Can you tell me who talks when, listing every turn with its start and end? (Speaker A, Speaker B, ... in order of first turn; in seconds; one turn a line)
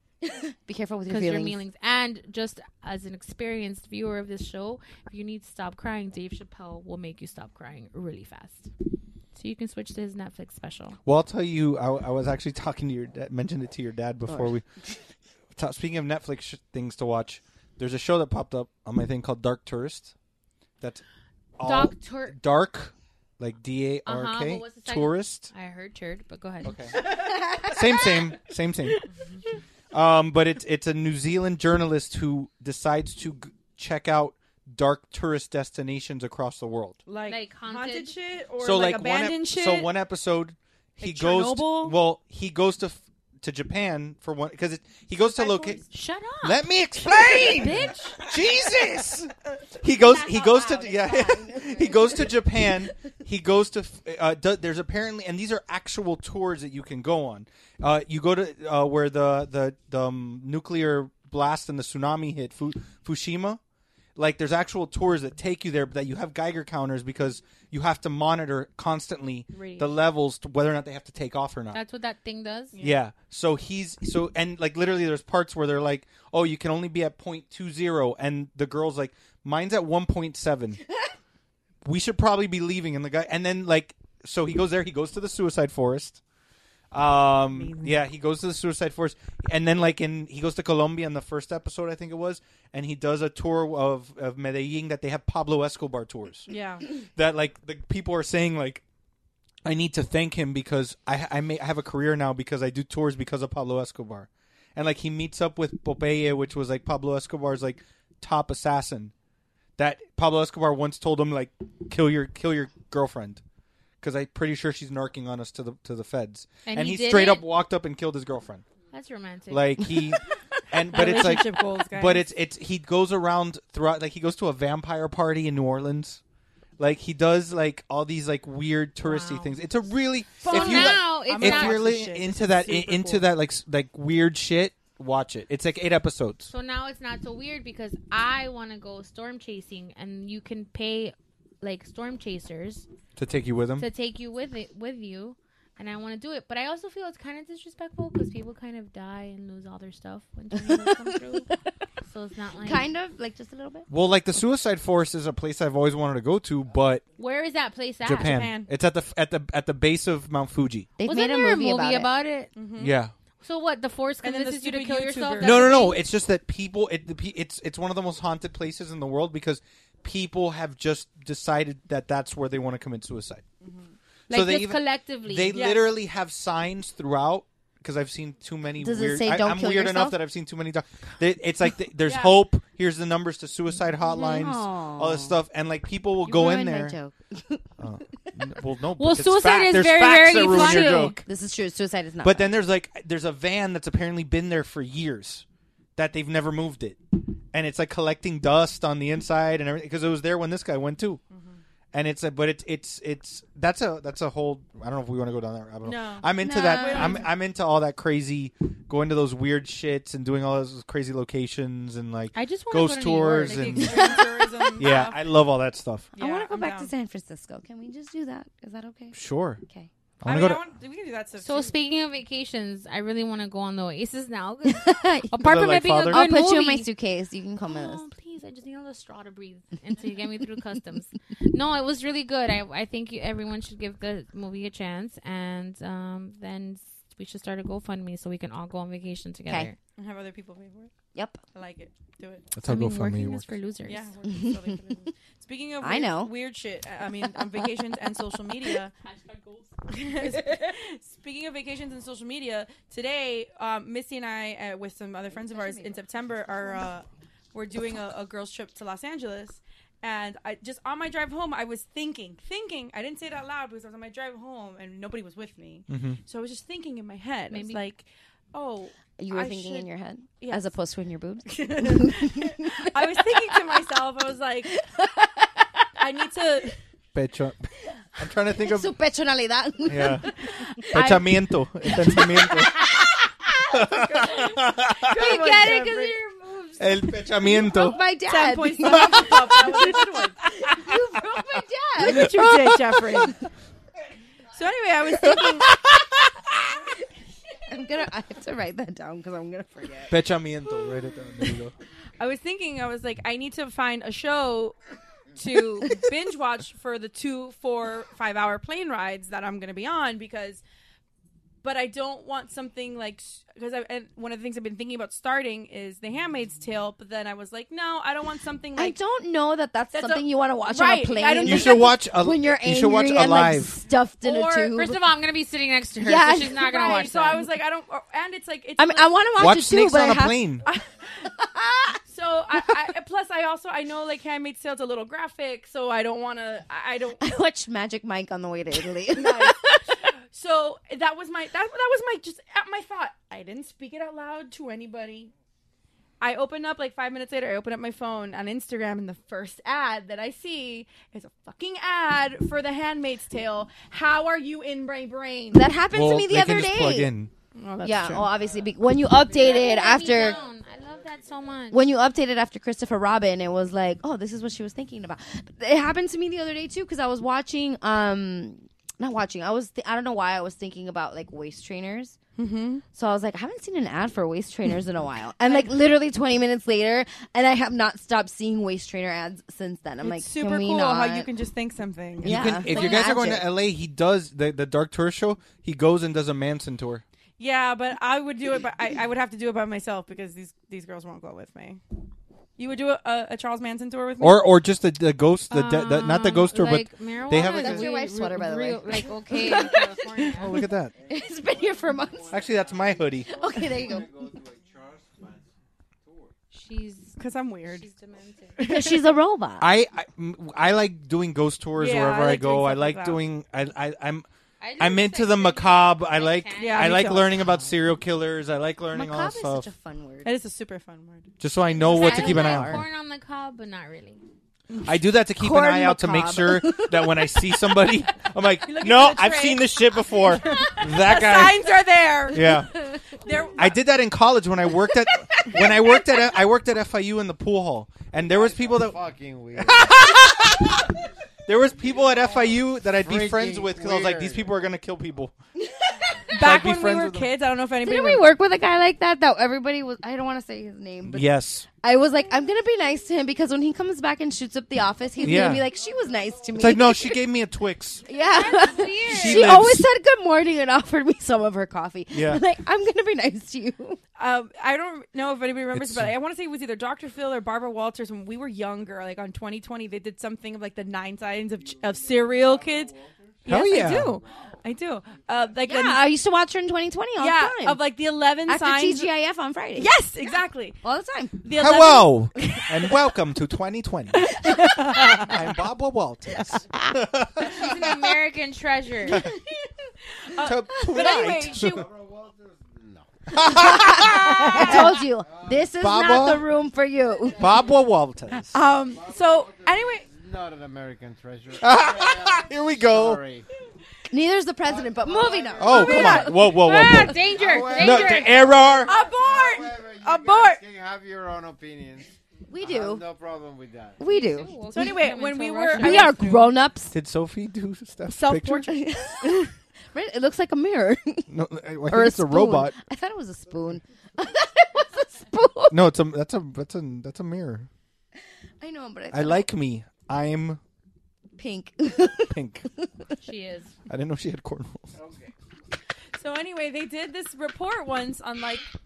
Speaker A: 0.2-1.6
Speaker B: 1.1-8.7
Speaker B: 9.3-11.0
Speaker C: 11.0-14.7
Speaker A: 14.3-14.6
Speaker C: 15.5-20.1
Speaker C: 21.6-25.5
Speaker B: 21.6-22.4
Speaker B: 24.1-26.8
Speaker C: 26.6-29.0
Speaker A: 27.1-28.2
Speaker C: 29.9-37.0
Speaker D: 37.1-39.9
Speaker B: 37.2-38.1
Speaker C: 38.6-45.8
Speaker D: 41.0-42.0
Speaker D: 45.3-45.8
Speaker B: 45.9-46.6
Speaker C: 46.4-63.6
Speaker B: 47.4-48.2
Speaker A: 50.0-52.7
Speaker C: 64.2-71.8
Speaker D: 69.5-70.0
Speaker B: 71.7-72.7
Speaker D: 72.7-73.0
Speaker C: 72.8-80.8
Speaker C: 81.8-86.2
Speaker C: 86.9-98.8
Speaker D: 87.5-88.0
Speaker D: 96.5-96.8
Speaker C: 99.6-109.1
Speaker C: 109.8-113.4
Speaker C: 114.0-118.6
Speaker B: 116.7-117.4
Speaker B: 118.9-119.8
Speaker C: 119.5-126.2
Speaker D: 120.9-122.3
Speaker C: 126.8-136.5
Speaker B: 129.0-129.6
Speaker D: 130.4-133.3
Speaker B: 130.4-131.8
Speaker B: 136.5-142.8
Speaker C: 143.2-143.9
Speaker B: 143.8-151.5
Speaker A: 150.5-151.5
Speaker B: 152.0-152.9
Speaker A: 152.6-153.9
Speaker C: 153.9-157.0
Speaker B: 157.2-158.3
Speaker C: 158.0-160.9
Speaker D: 158.2-158.7
Speaker A: 161.0-162.1
Speaker B: 161.0-162.5
Speaker D: 162.5-162.9
Speaker C: 162.8-163.1
Speaker B: 163.4-166.0
Speaker D: 164.2-165.9
Speaker C: 165.4-173.4
Speaker D: 173.6-173.9
Speaker B: 174.3-175.6
Speaker C: 174.3-187.0
Speaker D: 175.5-176.0
Speaker A: 178.8-180.2
Speaker D: 182.0-182.4
Speaker A: 184.1-185.4
Speaker A: 186.2-187.7
Speaker C: 187.8-191.3
Speaker B: 189.0-191.2
Speaker A: 190.5-192.6
Speaker C: 192.2-195.4
Speaker C: 195.9-201.2
Speaker D: 201.3-201.6
Speaker C: 201.9-216.1
Speaker D: 205.8-207.3
Speaker A: 206.3-207.3
Speaker B: 212.3-214.3
Speaker D: 213.4-215.2
Speaker A: 216.1-219.9
Speaker D: 216.2-216.9
Speaker C: 219.1-219.6
Speaker C: 220.2-220.6
Speaker D: 220.2-221.8
Speaker B: 221.4-226.9
Speaker A: 224.7-225.4
Speaker C: 225.4-226.2
Speaker A: 226.1-228.1
Speaker B: 227.7-239.7
Speaker D: 239.9-240.9
Speaker A: 241.1-241.4
Speaker D: 241.5-242.4
Speaker C: 242.5-243.5
Speaker B: 242.6-244.1
Speaker D: 243.8-248.9
Speaker A: 244.3-244.6
Speaker A: 245.8-246.3
Speaker D: 249.9-269.9
Speaker A: 255.3-256.9
Speaker C: 265.9-266.2
Speaker B: 267.5-267.9
Speaker A: 269.2-273.5
Speaker D: 270.4-270.7
Speaker D: 271.4-274.7
Speaker A: 274.7-275.5
Speaker D: 276.0-276.8
Speaker C: 277.1-279.0
Speaker A: 278.5-283.6
Speaker C: 279.9-280.3
Speaker C: 280.9-283.2
Speaker C: 283.7-285.4
Speaker D: 283.9-286.2
Speaker B: 285.2-286.8
Speaker C: 286.8-288.0
Speaker A: 287.4-292.3
Speaker D: 288.2-290.5
Speaker C: 288.9-290.0
Speaker D: 292.0-293.4
Speaker C: 292.0-293.3
Speaker D: 294.5-295.7
Speaker C: 295.2-296.3
Speaker A: 297.7-300.1
Speaker C: 300.1-301.7
Speaker D: 302.2-304.8
Speaker D: 305.3-310.6
Speaker D: 311.6-319.0
Speaker A: 318.8-325.0
Speaker D: 319.9-322.0
Speaker C: 321.4-323.8
Speaker D: 324.2-324.8
Speaker B: 324.4-327.4
Speaker A: 326.0-327.4
Speaker D: 326.6-329.1
Speaker A: 328.8-330.5
Speaker C: 329.4-330.7
Speaker D: 330.6-330.9
Speaker A: 331.4-332.0
Speaker D: 332.1-337.3
Speaker A: 337.2-340.0
Speaker D: 338.7-345.3
Speaker D: 346.2-355.7
Speaker A: 355.5-357.1
Speaker C: 355.9-357.3
Speaker D: 357.5-358.3
Speaker A: 357.8-360.4
Speaker E: 358.3-361.8
Speaker B: 359.3-361.8
Speaker A: 361.7-372.2
Speaker D: 372.4-372.8
Speaker A: 372.9-381.3
Speaker D: 375.4-375.7
Speaker D: 380.0-383.2
Speaker A: 382.2-383.5
Speaker C: 382.2-387.0
Speaker D: 387.4-391.8
Speaker D: 392.6-394.5
Speaker C: 394.2-398.0
Speaker B: 395.5-400.5
Speaker A: 397.4-400.0
Speaker C: 400.3-400.9
Speaker E: 401.0-405.5
Speaker A: 401.1-402.3
Speaker C: 402.3-403.4
Speaker A: 403.3-404.1
Speaker E: 406.0-406.3
Speaker B: 406.5-408.7
Speaker D: 407.2-407.9
Speaker D: 408.6-409.1
Speaker A: 408.6-409.6
Speaker C: 409.6-414.2
Speaker D: 411.7-413.2
Speaker B: 414.6-417.1
Speaker C: 414.8-419.7
Speaker D: 416.6-417.4
Speaker A: 418.9-420.3
Speaker D: 420.2-421.3
Speaker C: 421.4-422.8
Speaker B: 421.7-424.2
Speaker A: 421.9-422.8
Speaker C: 424.8-431.6
Speaker A: 425.4-427.8
Speaker D: 428.6-432.6
Speaker C: 432.3-432.8
Speaker A: 432.8-433.3
Speaker D: 433.2-433.7
Speaker C: 433.6-439.0
Speaker E: 438.1-440.3
Speaker C: 439.6-440.9
Speaker C: 441.4-445.3
Speaker E: 441.7-444.6
Speaker D: 446.3-448.3
Speaker C: 446.4-447.3
Speaker A: 447.8-457.2
Speaker C: 451.0-451.7
Speaker C: 455.2-455.7
Speaker E: 455.6-456.7
Speaker C: 456.6-458.1
Speaker A: 458.1-464.0
Speaker B: 458.2-459.6
Speaker C: 459.0-459.9
Speaker C: 462.1-462.4
Speaker D: 464.1-476.1
Speaker C: 465.7-466.1
Speaker E: 471.6-474.6
Speaker C: 473.5-474.2
Speaker A: 475.7-477.8
Speaker D: 477.2-479.1
Speaker A: 478.5-479.9
Speaker D: 479.8-480.8
Speaker A: 480.8-481.4
Speaker D: 481.4-482.9
Speaker C: 481.5-488.0
Speaker D: 484.2-485.3
Speaker B: 487.4-489.2
Speaker D: 490.0-491.9
Speaker C: 490.4-491.9
Speaker E: 491.3-493.3
Speaker C: 493.3-495.0
Speaker A: 493.5-497.4
Speaker E: 495.0-495.8
Speaker C: 495.7-496.5
Speaker E: 497.1-497.8
Speaker C: 497.4-498.6
Speaker D: 498.5-500.1
Speaker E: 498.7-503.4
Speaker C: 501.6-503.2
Speaker A: 504.1-506.4
Speaker E: 504.6-506.4
Speaker C: 505.6-508.9
Speaker D: 505.7-506.3
Speaker B: 505.9-508.5
Speaker E: 507.1-514.0
Speaker D: 508.8-510.6
Speaker A: 512.5-513.0
Speaker A: 514.0-514.8
Speaker B: 514.0-516.2
Speaker D: 514.7-516.5
Speaker A: 515.7-516.9
Speaker C: 516.9-518.7
Speaker D: 518.1-519.3
Speaker A: 518.7-521.3
Speaker C: 521.3-522.8
Speaker A: 521.9-525.8
Speaker C: 525.7-527.7
Speaker A: 528.6-529.5
Speaker C: 529.1-530.6
Speaker A: 531.4-532.4
Speaker C: 532.3-532.6
Speaker B: 533.2-533.7
Speaker C: 533.9-535.0
Speaker E: 535.0-535.3
Speaker D: 536.2-538.7